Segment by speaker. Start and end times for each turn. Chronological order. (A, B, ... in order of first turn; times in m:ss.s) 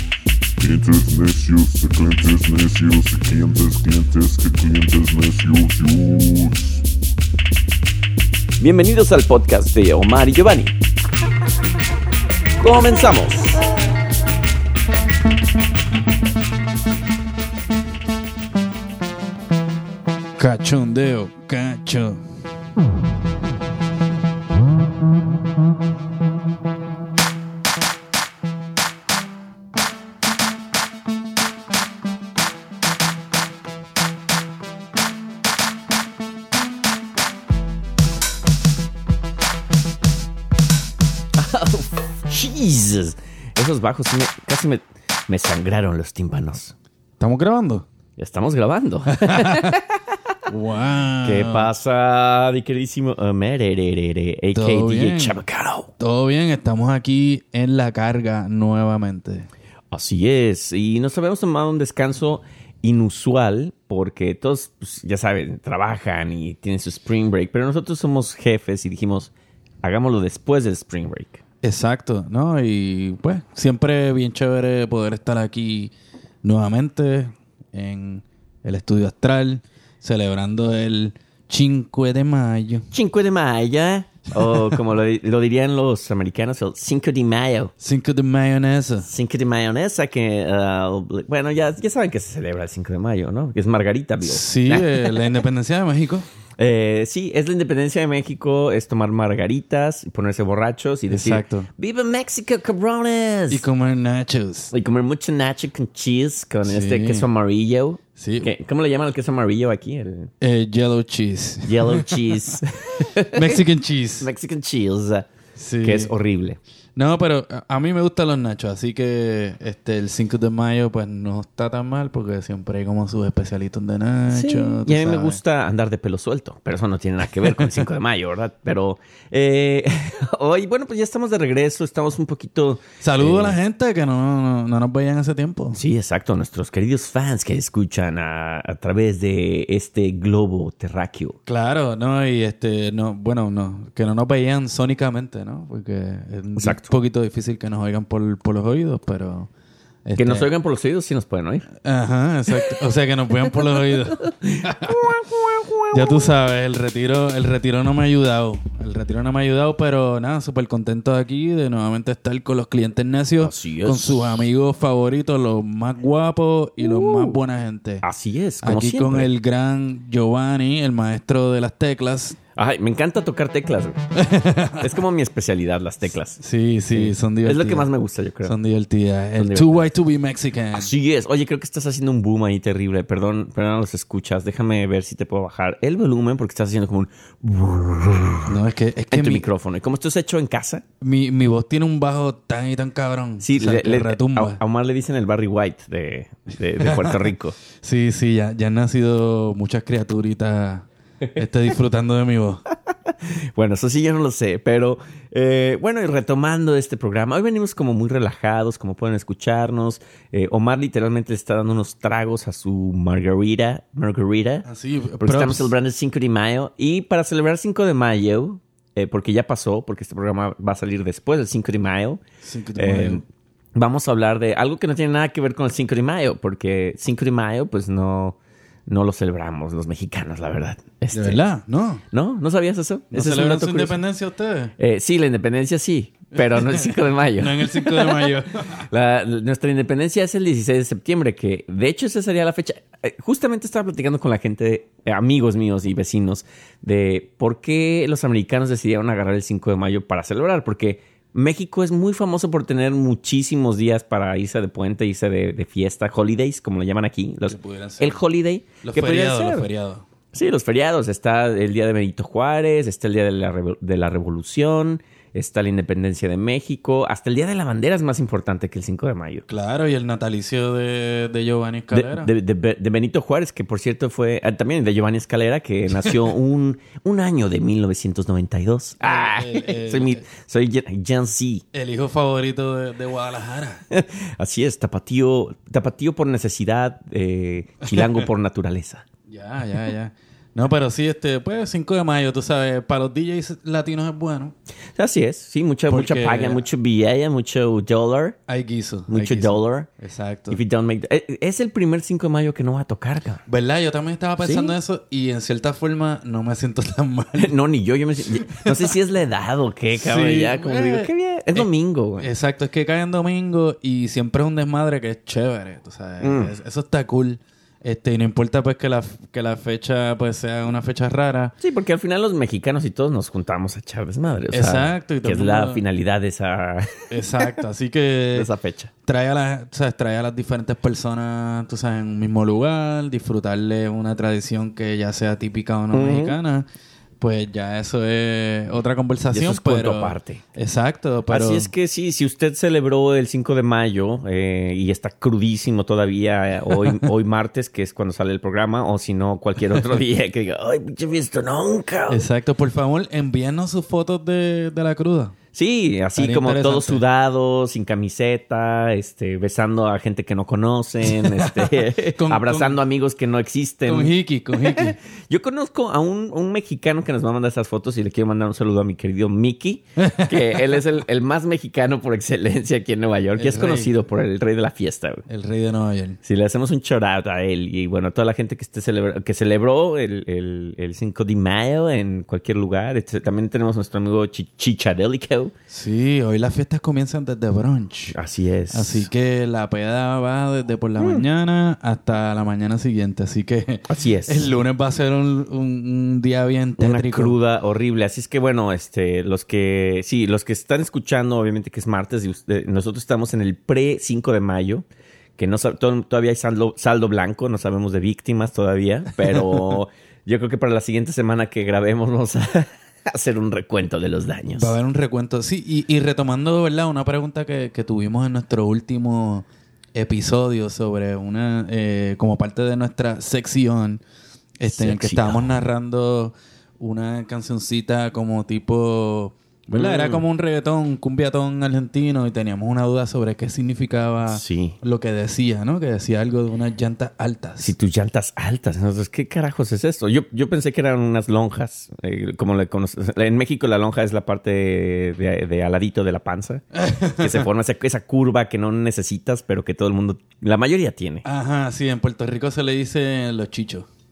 0:00.6-0:06.8 A
0:08.6-0:10.8 B
0:12.6-0:13.6 B
0:20.4-0:22.2 C
0:41.4-0:46.7 B
0:47.2-0:47.9 C
0:48.2-0:50.2 B
0:49.1-0:49.8 C
0:50.5-0:51.7 C
0:51.2-0:55.9 B
0:54.5-0:55.4 C
0:56.0-0:59.5 C
0:59.9-1:11.4 B
1:11.6-1:15.9 C
1:16.4-1:22.9 C
1:22.9-1:27.7 B
1:27.8-1:29.1 C
1:29.0-1:35.3 B
1:34.2-1:36.3 C
1:36.6-1:43.7 B
1:41.1-1:41.7 C
1:43.5-1:44.7 C
1:44.7-1:50.3 B
1:46.6-1:47.3 C
1:48.2-1:48.5 C
1:50.4-1:52.6 C
1:51.7-1:53.6 B
1:53.3-1:54.3 C
1:54.2-1:55.3 B
1:55.6-1:56.1 C
1:55.8-1:56.6 B
1:57.0-2:05.4 C
2:04.3-2:13.6 B
2:13.0-2:15.8 C
2:15.7-2:21.4 B
2:21.5-2:29.5 C
2:26.6-2:26.9 B
2:30.1-2:30.5 C
2:30.2-2:31.7 B
2:31.8-2:35.1 C
2:34.2-2:36.3 B
2:35.9-2:48.0 C
2:43.4-2:44.5 B
2:46.8-2:47.4 B
2:48.0-2:49.3 B
2:48.6-2:52.4 C
2:52.6-2:54.0 B
2:54.2-2:54.9 C
2:54.8-2:56.4 B
2:56.4-2:57.9 C
2:56.9-2:58.6 B
2:58.4-3:00.9 C
2:59.4-2:59.8 B
3:00.7-3:08.6 B
3:08.5-3:09.4 C
3:09.1-3:10.8 B
3:11.0-3:14.6 C
3:13.4-3:17.6 B
3:16.8-3:22.6 C
3:23.1-3:34.6 B
3:34.6-3:35.7 C
3:35.2-3:42.2 B
3:42.4-3:43.2 C
3:42.8-3:43.2 B
3:43.8-3:51.4 B
3:51.1-3:52.0 C
3:52.1-3:54.0 B
3:53.1-3:54.7 C
3:54.8-4:19.7 B
3:56.4-3:58.9 C
4:17.5-4:18.2 C
4:18.8-4:20.1 C
4:20.3-4:29.5 B
4:29.5-4:32.3 C
4:31.9-4:41.6 B
4:39.0-4:40.2 C
4:41.7-4:43.8 C
4:43.9-4:49.0 B
4:47.9-4:48.2 C
4:49.3-4:54.6 C
4:55.0-4:58.4 B
4:55.9-4:56.7 C
4:58.5-5:00.6 C
4:59.1-4:59.9 B
5:00.5-5:03.4 B
5:03.5-5:07.5 C
5:04.4-5:04.8 B
5:07.4-5:12.3 B
5:08.4-5:08.9 C
5:09.9-5:21.6 C
5:16.2-5:16.5 B
5:21.6-5:27.5 B
5:24.5-5:25.8 C
5:27.1-5:28.5 C
5:28.3-5:28.9 B
5:29.0-5:36.7 C
5:35.9-5:36.4 B
5:37.2-5:41.7 C
5:39.3-5:40.4 B
5:41.3-5:52.2 B
5:52.1-5:55.4 C
5:55.5-6:15.2 B
5:56.2-5:57.0 C
6:01.3-6:02.8 C
6:03.9-6:05.0 C
6:10.0-6:10.7 C
6:13.4-6:13.9 C
6:15.3-6:16.2 C
6:16.2-6:25.5 B
6:25.7-6:28.2 C
6:28.1-6:29.1 B
6:28.7-6:37.4 C
6:31.0-6:31.2 B
6:33.9-6:34.5 B
6:36.8-6:44.8 B
6:45.4-6:54.8 B
6:54.6-7:04.0 C
7:04.6-7:17.7 C
7:04.7-7:05.6 B
7:09.8-7:10.2 B
7:14.3-7:14.8 B
7:17.6-7:26.6 B
7:26.7-7:27.5 C
7:27.2-7:31.2 B
7:31.2-7:33.9 C